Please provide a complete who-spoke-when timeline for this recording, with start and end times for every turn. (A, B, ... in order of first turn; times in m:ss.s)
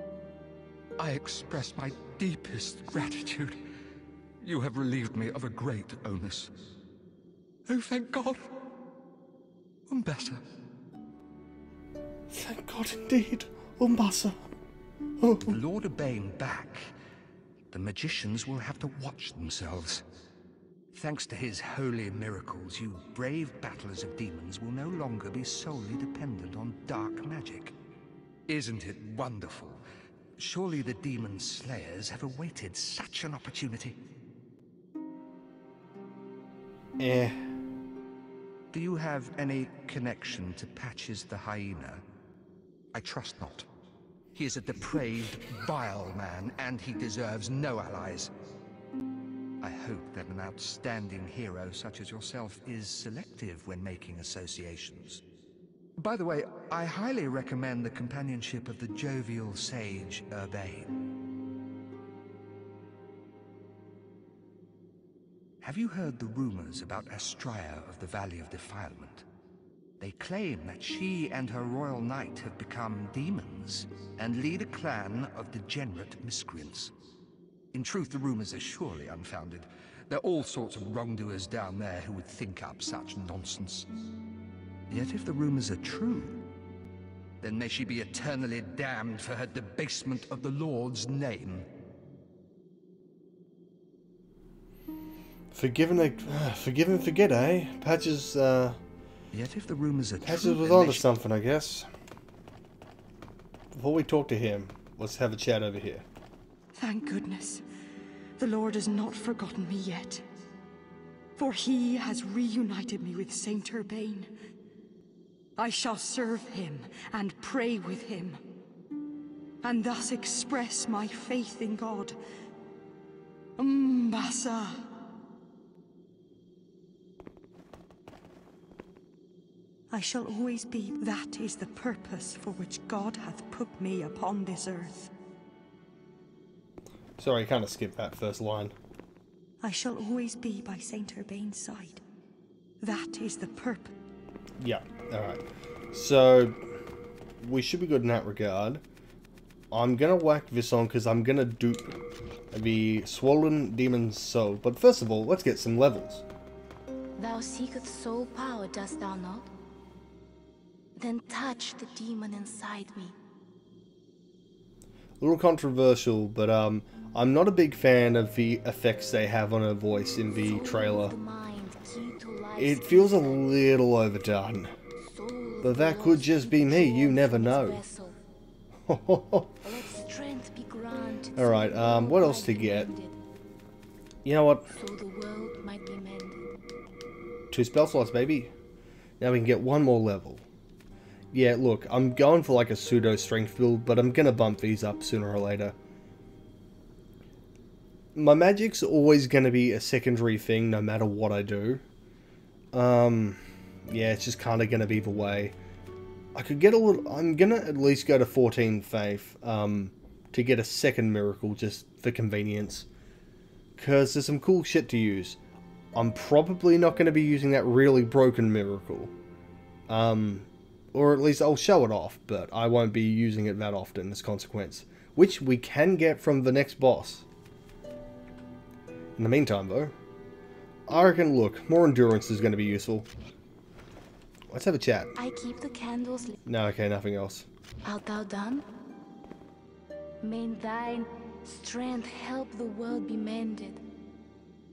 0:01.0-0:03.6 A
0:04.4-0:06.5 A
0:07.7-0:08.4 A
0:09.9-0:10.4 A
0:12.3-0:14.4 B
0:15.2-0:15.5 B
0:15.4-0:16.9 A
0:17.7-0:20.0 A
0:20.9-0:27.7 A
0:28.5-0:29.8 A
0:30.4-0:34.0 A
0:37.0-0:37.4 B
0:38.7-0:42.0 A
0:42.9-0:43.6 A
0:44.3-0:48.3 A
0:49.6-0:55.2 A
0:56.0-1:00.9 A
1:05.6-1:09.2 A
1:10.0-1:16.9 A
1:17.7-1:23.9 A
1:24.9-1:26.4 A
1:27.4-1:31.7 A
1:35.5-1:38.8 B
1:39.3-1:41.1 A
1:40.2-1:41.9 B
1:43.7-1:46.0 B
1:46.7-1:47.6 C
1:48.4-1:50.2 C
1:51.4-1:54.3 C
1:55.6-1:58.4 C
1:59.6-2:02.2 C
2:03.6-2:04.8 C
2:09.9-2:15.1 C
2:17.2-2:18.7 B
2:19.6-2:22.0 C
2:22.8-2:23.9 C
2:24.6-2:26.6 B
2:27.4-2:28.8 B
2:29.7-2:32.0 B
2:32.5-2:36.2 B
2:37.2-2:39.5 D
2:41.0-2:43.2 D
2:45.2-2:51.2 B
2:50.3-2:53.5 D
2:52.6-2:54.7 B
2:55.1-2:58.2 D
2:55.6-2:57.8 B
2:58.9-2:59.5 B
2:59.6-3:03.2 D
3:01.4-3:02.9 B
3:04.2-3:04.7 B
3:04.7-3:06.4 D
3:07.5-3:08.5 B
3:09.2-3:10.4 B
3:11.3-3:15.7 B
3:18.2-3:21.8 B
3:22.7-3:25.5 B
3:26.3-3:32.9 B
3:33.8-3:35.4 B
3:35.9-3:39.1 B
3:39.9-3:47.2 B
3:49.2-3:49.9 B
3:50.9-3:53.1 B
3:54.5-3:55.1 B
3:55.2-3:56.4 D
3:56.4-3:57.5 B
3:57.8-3:58.6 D
4:00.2-4:03.8 D